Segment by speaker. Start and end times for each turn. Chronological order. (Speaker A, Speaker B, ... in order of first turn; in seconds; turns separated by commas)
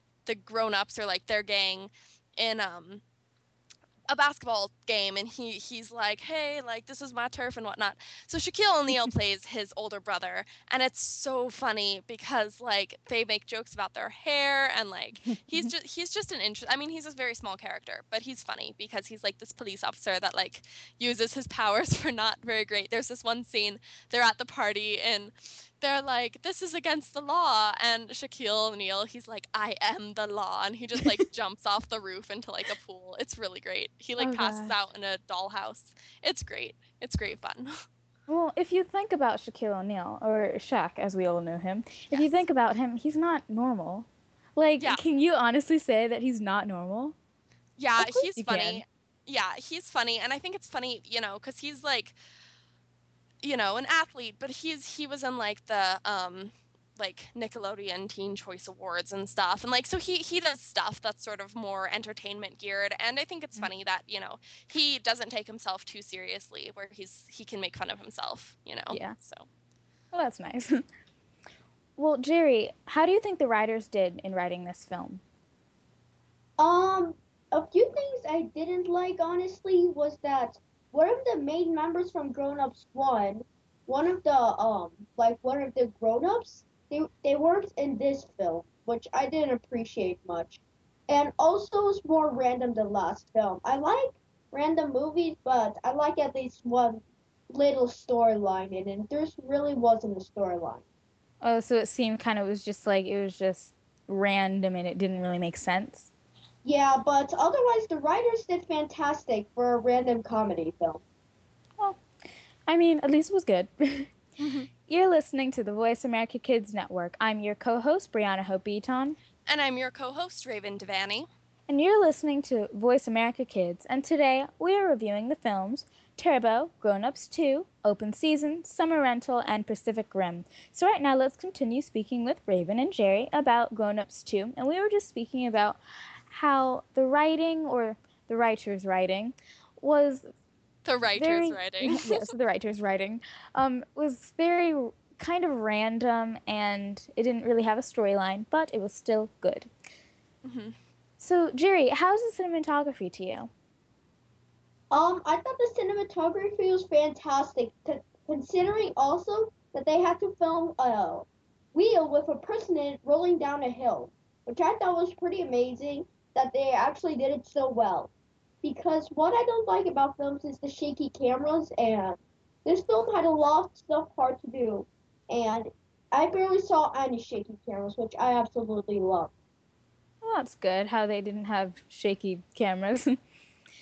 Speaker A: 0.2-3.0, Speaker A: 4.1-37.7, Speaker B: 34.2-34.8, Speaker B: 38.3-47.1, Speaker A: 42.1-42.4, Speaker A: 47.8-52.2, Speaker B: 48.0-48.8, Speaker A: 53.4-69.5, Speaker B: 68.9-69.2, Speaker B: 70.1-70.8, Speaker B: 72.0-75.2, Speaker C: 76.6-100.8, Speaker B: 101.4-106.1, Speaker C: 106.7-111.0, Speaker B: 112.7-114.1, Speaker A: 114.4-114.7, Speaker B: 114.9-119.2, Speaker A: 119.5-121.3, Speaker B: 121.7-135.8, Speaker B: 136.3-140.3, Speaker A: 140.8-142.3, Speaker B: 141.2-149.7, Speaker A: 150.4-150.8, Speaker B: 151.2-153.5, Speaker C: 154.9-168.1, Speaker C: 168.6-179.3, Speaker B: 180.2-183.2